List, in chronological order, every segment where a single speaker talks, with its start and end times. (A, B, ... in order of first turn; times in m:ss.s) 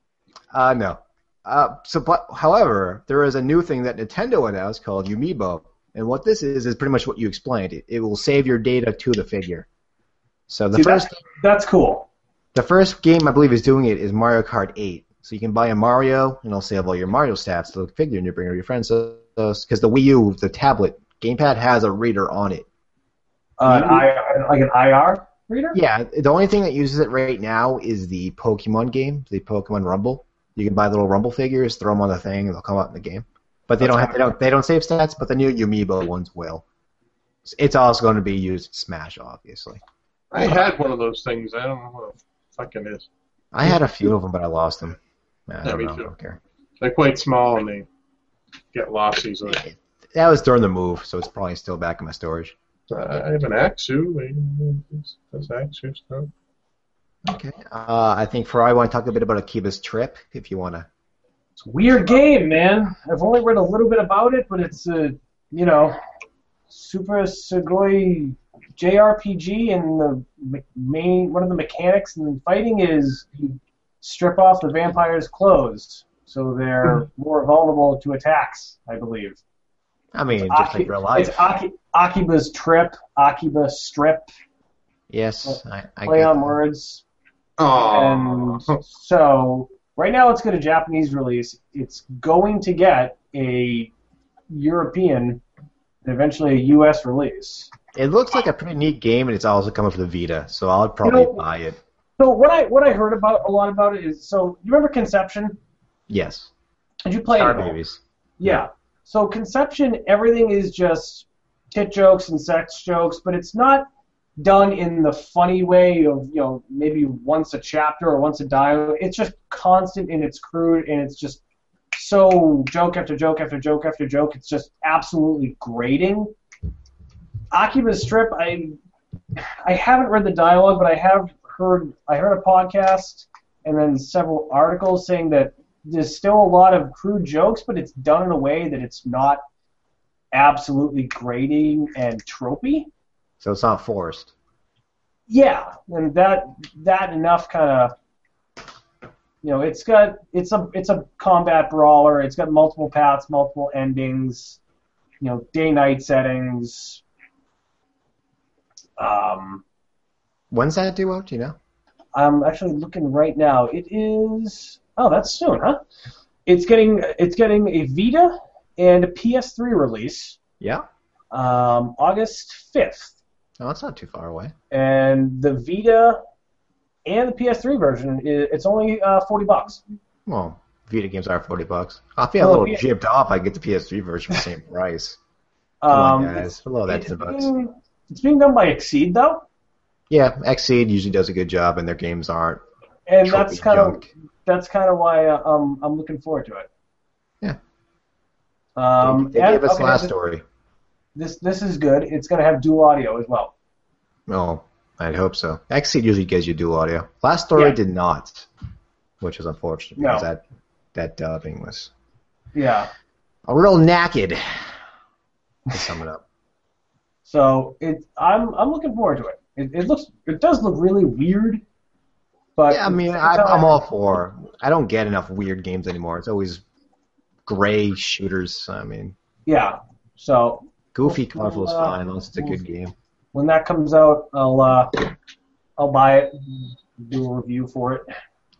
0:00.5-0:09.7 A
0:10.5-0:11.2 A
0:10.7-0:12.1 B
0:12.5-0:22.6 A
0:23.6-0:25.8 B
0:23.6-0:24.1 A
0:25.7-0:36.6 A
0:33.8-0:34.2 B
0:37.4-0:39.8 A
0:40.3-0:43.1 C
0:43.5-0:46.4 A
0:45.6-0:46.1 C
0:46.8-0:47.8 C
0:48.7-0:49.6 C
0:49.5-0:52.5 A
0:52.9-0:56.3 C
0:57.2-1:00.9 A
1:01.6-1:06.0 B
1:06.7-1:19.4 B
1:20.1-1:21.5 A
1:20.4-1:24.3 B
1:25.1-1:26.5 A
1:25.4-1:27.0 B
1:27.6-1:28.8 C
1:27.7-1:33.9 B
1:34.5-1:35.4 B
1:36.0-1:37.7 B
1:37.9-1:41.8 A
1:41.0-1:41.4 B
1:42.2-1:45.6 B
1:46.1-1:46.5 A
1:47.0-1:47.8 B
1:47.3-1:48.6 A
1:48.4-1:53.9 B
1:54.4-2:01.4 B
2:01.9-2:06.3 B
2:07.5-2:08.7 B
2:09.6-2:19.4 B
2:20.3-2:22.9 B
2:23.4-2:24.3 A
2:25.3-2:27.9 B
2:29.4-2:34.6 B
2:35.2-2:37.0 B
2:39.0-2:39.6 B
2:40.5-2:41.6 A
2:42.1-2:45.8 B
2:46.4-2:50.4 B
2:51.3-2:53.2 B
2:53.6-2:54.5 A
2:54.7-2:56.2 B
2:57.0-2:59.8 B
3:00.2-3:05.2 A
3:02.4-3:02.8 B
3:05.8-3:09.4 B
3:05.9-3:07.5 A
3:10.1-3:12.6 A
3:13.1-3:16.7 B
3:13.2-3:14.1 A
3:18.8-3:20.1 B
3:19.0-3:20.4 A
3:21.1-3:23.5 B
3:24.3-3:28.5 A
3:29.2-3:30.4 A
3:30.0-3:30.3 B
3:30.9-3:31.9 A
3:32.5-3:32.9 B
3:33.4-3:34.6 A
3:35.7-3:36.2 A
3:37.2-3:41.6 B
3:42.6-3:43.8 B
3:42.7-3:46.6 A
3:47.4-3:49.1 A
3:49.4-3:52.5 B
3:50.9-3:52.9 A
3:53.3-3:55.1 B
3:55.8-3:58.1 B